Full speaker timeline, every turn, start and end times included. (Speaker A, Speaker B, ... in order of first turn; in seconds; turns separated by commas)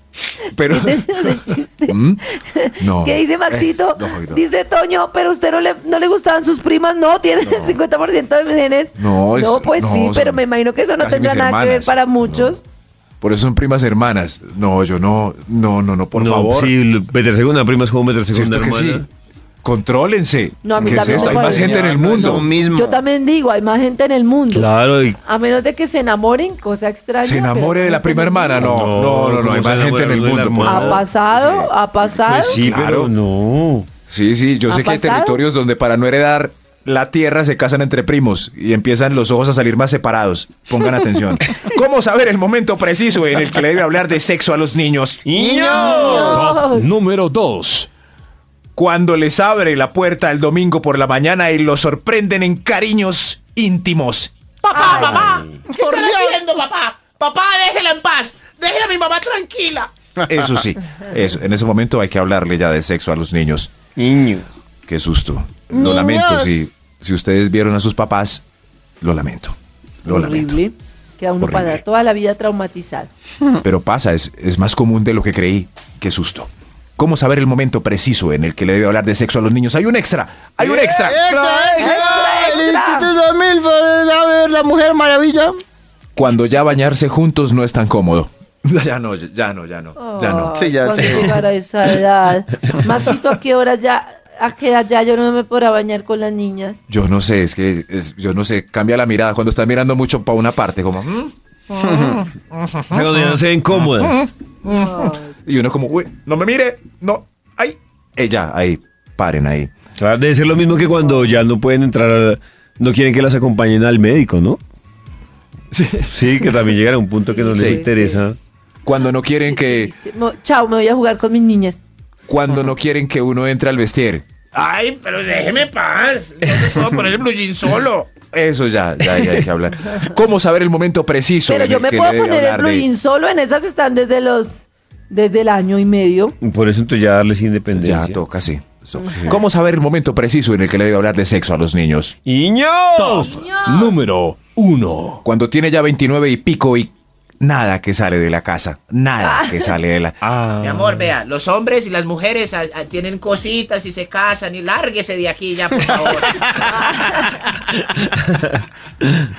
Speaker A: 0.5-2.2, Speaker B: 0.7-12.6, Speaker A: 2.8-4.4, Speaker A: 7.4-7.8, Speaker A: 9.0-10.4, Speaker A: 11.0-12.6, Speaker A: 13.2-16.7, Speaker C: 16.1-19.1, Speaker A: 18.3-19.1, Speaker A: 19.6-22.5, Speaker B: 20.6-24.7, Speaker D: 20.8-23.0, Speaker C: 21.0-21.5, Speaker E: 21.9-22.4, Speaker C: 24.5-25.2, Speaker B: 25.2-28.9, Speaker A: 27.2-31.7, Speaker C: 28.6-31.1, Speaker B: 30.6-32.6, Speaker C: 32.2-33.9, Speaker A: 32.5-33.1, Speaker A: 34.1-45.3, Speaker B: 34.7-35.4, Speaker C: 45.2-46.4, Speaker D: 45.3-46.5, Speaker B: 45.7-46.9, Speaker E: 46.1-47.9, Speaker A: 48.8-55.4, Speaker F: 54.8-59.9, Speaker C: 54.8-55.6, Speaker B: 54.8-55.2, Speaker D: 55.7-56.6, Speaker A: 56.9-57.2, Speaker D: 60.2-60.5, Speaker A: 60.3-63.7, Speaker C: 64.0-64.5, Speaker A: 64.9-68.4, Speaker D: 65.7-66.7, Speaker A: 69.0-70.6, Speaker B: 70.1-73.1, Speaker A: 71.4-71.8, Speaker A: 73.6-82.2, Speaker D: 80.7-85.5, Speaker B: 81.8-83.1, Speaker A: 86.1-90.5, Speaker B: 90.0-96.8, Speaker D: 90.6-91.4, Speaker A: 96.9-109.7, Speaker C: 102.9-104.2, Speaker B: 104.9-105.2, Speaker C: 110.0-114.6, Speaker A: 115.7-116.6, Speaker C: 116.1-118.4, Speaker B: 117.3-118.2, Speaker A: 117.5-117.8, Speaker A: 118.8-119.9, Speaker B: 118.9-121.8, Speaker A: 122.3-125.2, Speaker F: 124.5-128.0, Speaker A: 125.8-132.9, Speaker B: 131.5-136.3, Speaker C: 136.4-138.2, Speaker A: 137.7-142.1, Speaker B: 139.0-139.3, Speaker C: 139.1-139.4, Speaker C: 142.2-143.3, Speaker E: 142.9-145.2, Speaker B: 143.3-144.0, Speaker A: 145.2-150.2, Speaker B: 149.2-149.7, Speaker C: 150.3-150.8, Speaker E: 150.5-151.1, Speaker F: 150.6-156.6, Speaker A: 150.9-151.1, Speaker A: 155.8-156.2, Speaker D: 156.4-156.8, Speaker B: 156.9-157.3, Speaker C: 157.8-158.6